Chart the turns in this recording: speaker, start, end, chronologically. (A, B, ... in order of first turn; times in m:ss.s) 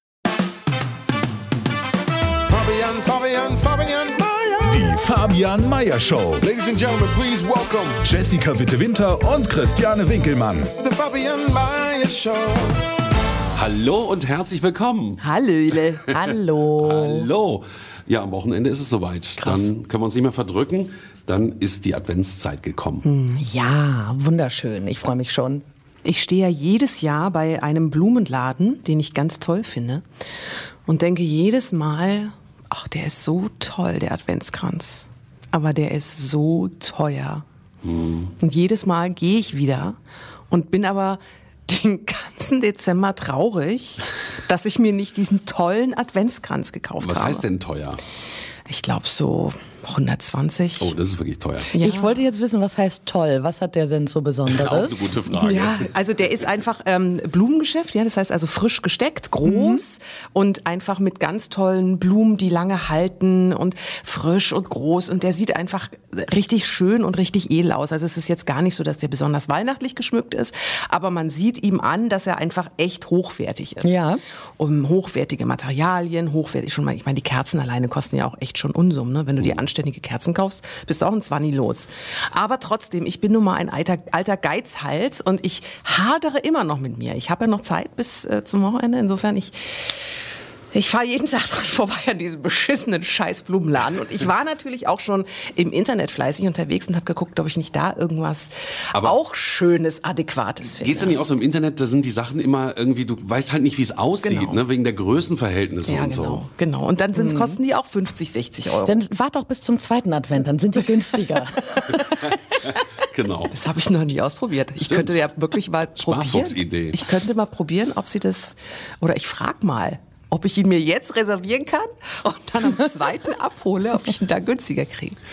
0:02.5-0:05.1 A
0:04.6-0:06.5 B
0:06.4-0:08.1 A
0:08.0-0:10.7 B
0:10.7-0:12.8 A
0:13.5-0:15.2 C
0:15.2-0:16.0 D
0:16.1-0:17.3 E
0:16.8-0:23.0 C
0:19.4-0:19.7 D
0:23.0-0:23.4 D
0:23.4-0:25.6 E
0:26.0-0:30.0 D
0:30.8-0:37.4 D
0:37.8-0:38.3 C
0:38.4-0:40.0 D
0:40.5-0:47.4 D
0:47.0-0:48.0 C
0:48.7-0:50.9 D
0:50.8-0:51.7 C
0:51.7-0:52.2 D
0:51.8-0:55.2 E
0:54.5-0:55.9 C
0:55.3-1:14.0 D
0:59.4-0:59.8 E
1:13.8-1:14.2 E
1:14.6-1:30.0 D
1:30.7-1:41.2 D
1:40.7-1:46.4 C
1:44.2-1:44.6 D
1:45.8-1:48.9 D
1:47.1-1:47.6 E
1:48.8-1:52.8 E
1:53.1-1:53.5 C
1:53.5-2:05.2 D
1:54.8-1:55.3 C
1:56.0-1:57.0 C